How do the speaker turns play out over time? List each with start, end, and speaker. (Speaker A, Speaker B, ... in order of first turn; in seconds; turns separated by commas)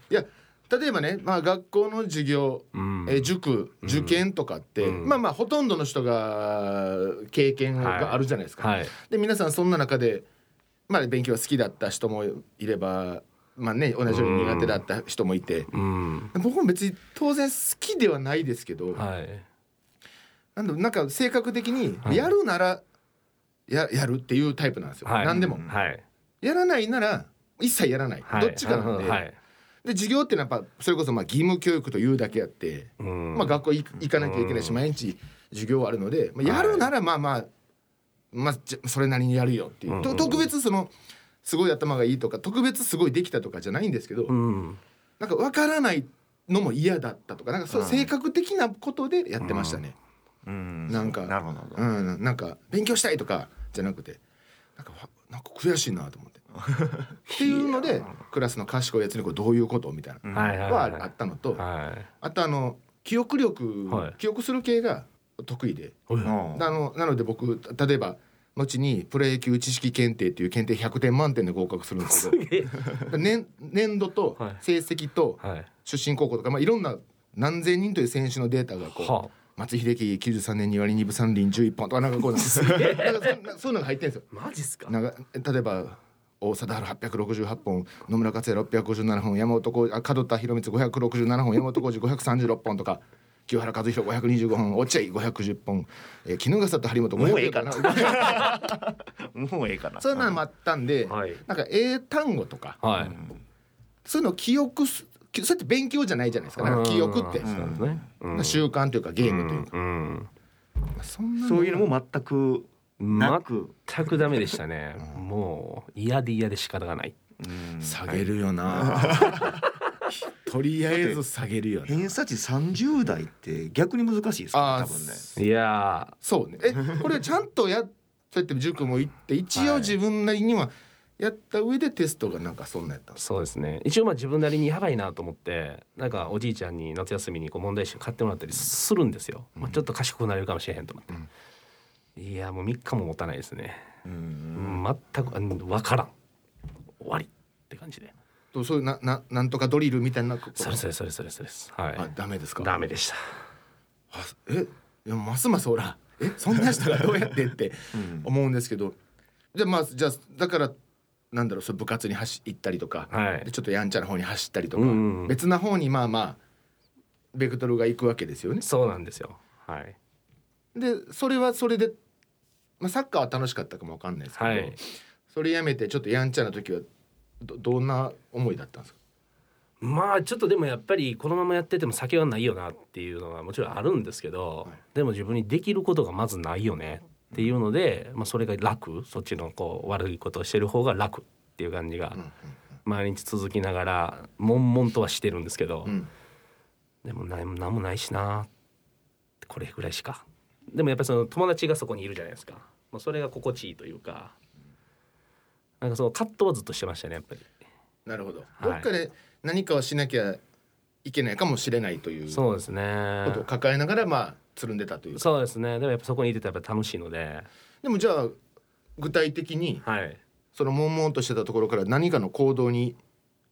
Speaker A: 0.1-10.2, Speaker B: 2.7-3.3, Speaker B: 3.8-4.2, Speaker B: 4.8-5.2, Speaker B: 7.8-8.9, Speaker A: 10.9-15.7, Speaker B: 14.1-14.8, Speaker B: 15.7-16.3, Speaker A: 16.3-19.0, Speaker B: 18.9-19.4, Speaker A: 20.6-22.8, Speaker B: 22.0-22.3, Speaker A: 23.7-25.6, Speaker B: 25.1-26.0, Speaker C: 25.3-25.7, Speaker A: 26.4-29.2, Speaker B: 28.2-29.4, Speaker A: 29.8-37.5, Speaker B: 33.0-33.6, Speaker B: 34.1-34.8, Speaker B: 36.4-36.9, Speaker A: 38.3-40.9, Speaker B: 39.9-40.5, Speaker A: 41.4-44.4, Speaker B: 44.3-44.8, Speaker A: 45.2-50.0, Speaker C: 47.7-48.1, Speaker B: 49.4-49.8, Speaker C: 50.4-51.8, Speaker A: 50.9-54.2, Speaker A: 54.8-56.4, Speaker C: 56.5-57.2, Speaker B: 57.3-58.2, Speaker A: 57.3-61.6, Speaker C: 60.2-60.6, Speaker B: 60.3-62.1, Speaker A: 62.2-66.0, Speaker B: 63.9-64.2, Speaker B: 66.1-66.3, Speaker C: 66.2-66.7, Speaker A: 66.5-84.3, Speaker B: 72.0-73.0, Speaker B: 75.4-75.7, Speaker B: 78.9-79.3, Speaker B: 82.4-83.4, Speaker B: 84.3-84.9, Speaker A: 84.9-98.5, Speaker C: 97.2-100.4, Speaker A: 100.0-102.8, Speaker B: 101.1-101.4, Speaker B: 102.8-103.2, Speaker C: 103.0-103.4, Speaker A: 104.0-107.8, Speaker B: 106.6-108.7, Speaker C: 107.4-108.0, Speaker A: 108.3-109.7, Speaker B: 109.2-110.3, Speaker A: 110.9-111.9, Speaker C: 111.4-114.5, Speaker B: 113.0-117.2, Speaker C: 117.4-119.6, Speaker A: 117.8-119.6, Speaker B: 119.2-119.9, Speaker A: 120.1-122.1, Speaker C: 120.9-121.2, Speaker C: 121.9-125.2, Speaker A: 124.5-125.4, Speaker B: 125.4-126.1, Speaker A: 126.2-133.2, Speaker B: 129.5-129.9, Speaker B: 133.2-141.2, Speaker B: 142.2-143.9, Speaker C: 144.0-144.8, Speaker B: 144.5-146.1, Speaker B: 147.0-148.1, Speaker A: 148.5-150.8, Speaker B: 150.6-152.1, Speaker A: 151.9-152.7, Speaker B: 152.6-153.4, Speaker A: 154.1-158.9, Speaker C: 157.9-158.2, Speaker A: 159.5-160.7, Speaker A: 161.3-166.4, Speaker B: 163.1-163.5, Speaker B: 164.8-165.3, Speaker A: 167.3-168.6, Speaker B: 168.6-169.9, Speaker A: 170.8-172.0, Speaker A: 172.8-176.9, Speaker B: 174.4-174.8, Speaker A: 177.4-178.9, Speaker B: 179.8-192.2, Speaker B: 192.8-196.0, Speaker B: 197.0-198.5, Speaker B: 199.4-204.3, Speaker B: 205.8-207.4, Speaker A: 208.1-210.4, Speaker B: 208.6-208.9, Speaker A: 211.0-212.4, Speaker B: 212.3-213.4, Speaker A: 213.2-215.2, Speaker B: 215.1-217.5, Speaker A: 217.8-218.4, Speaker A: 219.0-219.8, Speaker B: 219.8-220.2, Speaker A: 220.5-223.0